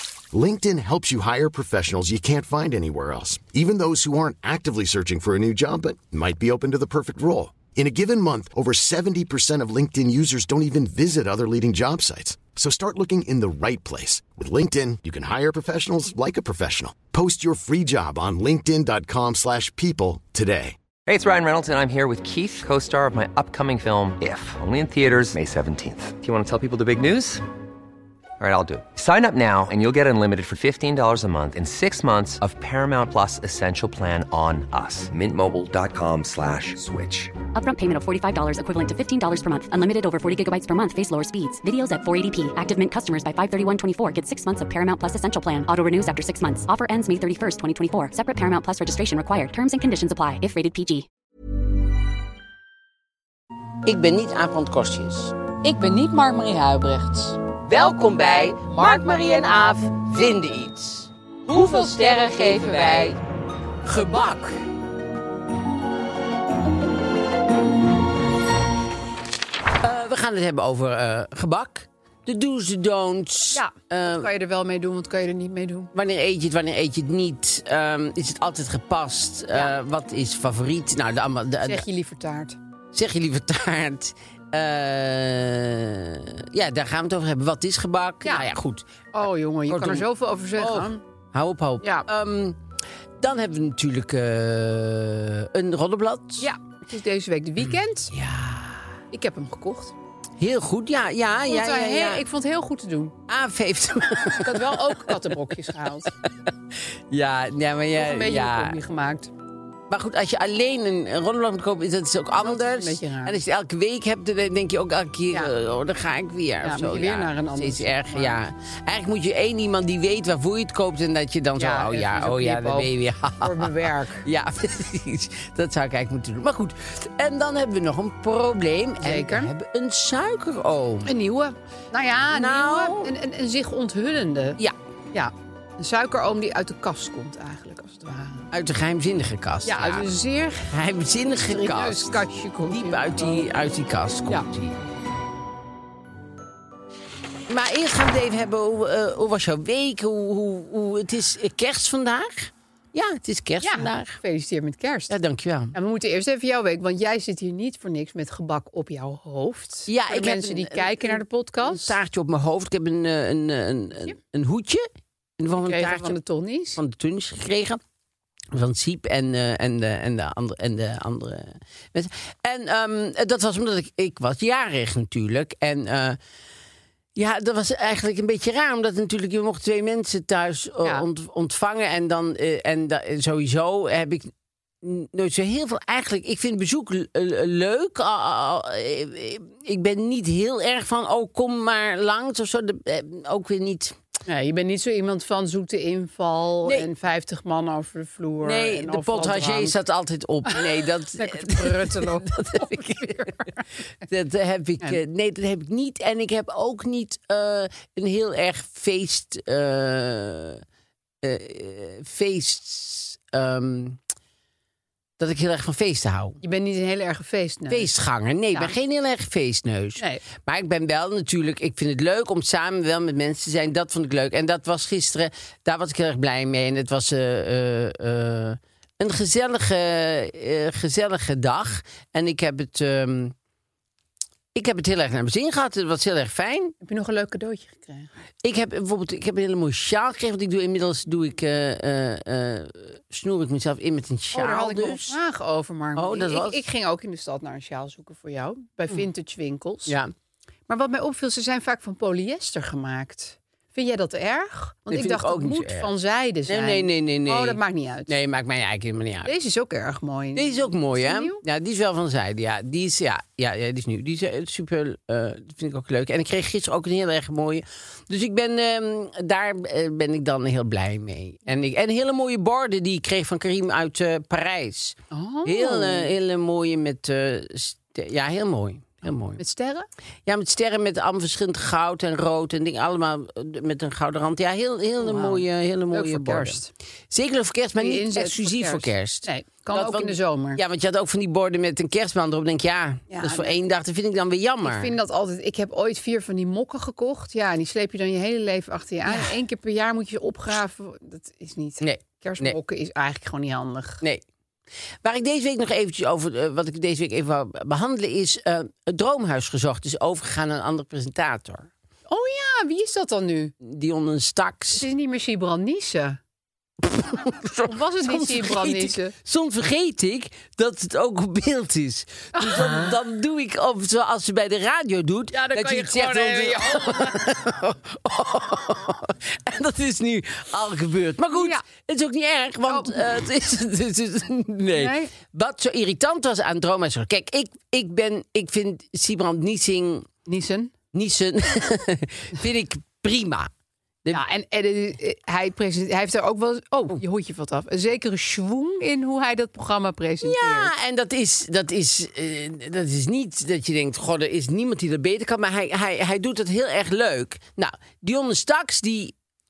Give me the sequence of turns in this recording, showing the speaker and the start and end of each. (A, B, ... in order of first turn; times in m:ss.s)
0:00.3-0:20.8 A
0:21.1-0:27.4 B
0:28.4-0:37.3 B
0:37.6-0:51.1 C
0:53.8-0:55.4 D
0:55.6-0:57.4 E
0:57.6-1:03.2 D
1:01.5-1:03.2 E
1:03.8-1:04.6 D
1:09.8-1:14.3 D
1:13.5-1:15.9 E
1:15.9-1:21.8 D
1:21.6-1:22.6 E
1:22.9-1:28.8 D
1:29.1-1:31.0 E
1:29.7-1:32.6 D
1:31.8-1:32.1 E
1:33.2-1:36.5 D
1:36.4-1:38.1 E
1:37.6-1:38.8 D
1:39.1-1:40.0 E
1:40.4-1:42.2 D
1:41.5-1:43.2 E
1:43.3-1:45.2 D
1:44.4-1:46.1 E
1:46.0-1:46.5 D
1:47.1-1:48.8 D
1:48.0-1:49.3 E
1:49.9-2:11.1 D
1:52.4-1:53.4 E
1:56.6-1:58.4 E
2:01.6-2:04.2 E
2:09.0-2:09.5 E
2:11.0-2:14.6 E
2:12.3-2:13.1 D
2:15.1-2:18.5 E
2:18.5-2:20.1 D
2:19.7-2:20.7 E
2:20.6-2:24.8 D
2:21.4-2:23.5 E
2:27.5-2:34.2 D
2:33.6-2:35.1 E
2:35.1-2:35.7 D
2:35.7-2:42.0 E
2:39.9-2:46.2 D
2:45.5-2:46.8 E
2:46.8-2:47.8 D
2:48.5-2:56.2 D
2:57.2-3:14.0 D
3:14.3-3:19.8 E
3:18.4-3:23.3 D
3:20.5-3:23.6 E
3:24.0-3:30.6 D
3:31.2-3:34.0 D
3:35.2-3:36.4 D
3:36.4-3:37.9 E
3:37.7-3:53.4 D
3:54.6-3:56.8 D
3:56.8-3:58.1 E
3:58.4-4:05.2 D
4:04.3-4:10.0 E
4:06.0-4:06.6 D
4:09.9-4:10.1 D
4:10.7-4:18.1 E
4:14.9-4:15.9 D
4:16.5-4:19.3 D
4:19.2-4:21.4 E
4:20.4-4:39.4 D
4:35.1-4:36.1 E
4:39.4-4:39.9 E
4:40.3-4:54.9 D
4:45.0-4:46.7 E
4:47.8-4:50.6 E
4:53.1-4:53.6 E
4:54.6-5:04.0 E
4:59.1-4:59.3 D
5:01.8-5:02.6 D
5:05.0-5:11.7 D
5:12.1-5:13.5 E
5:13.6-5:14.8 D
5:14.8-5:16.2 E
5:16.8-5:40.1 D
5:17.6-5:19.2 E
5:22.3-5:22.9 E
5:25.3-5:27.2 E
5:31.3-5:31.6 E
5:32.7-5:33.0 E
5:34.8-5:35.1 E
5:40.3-5:40.7 E
5:40.9-5:43.5 D
5:44.1-5:50.7 E
5:50.2-5:59.2 D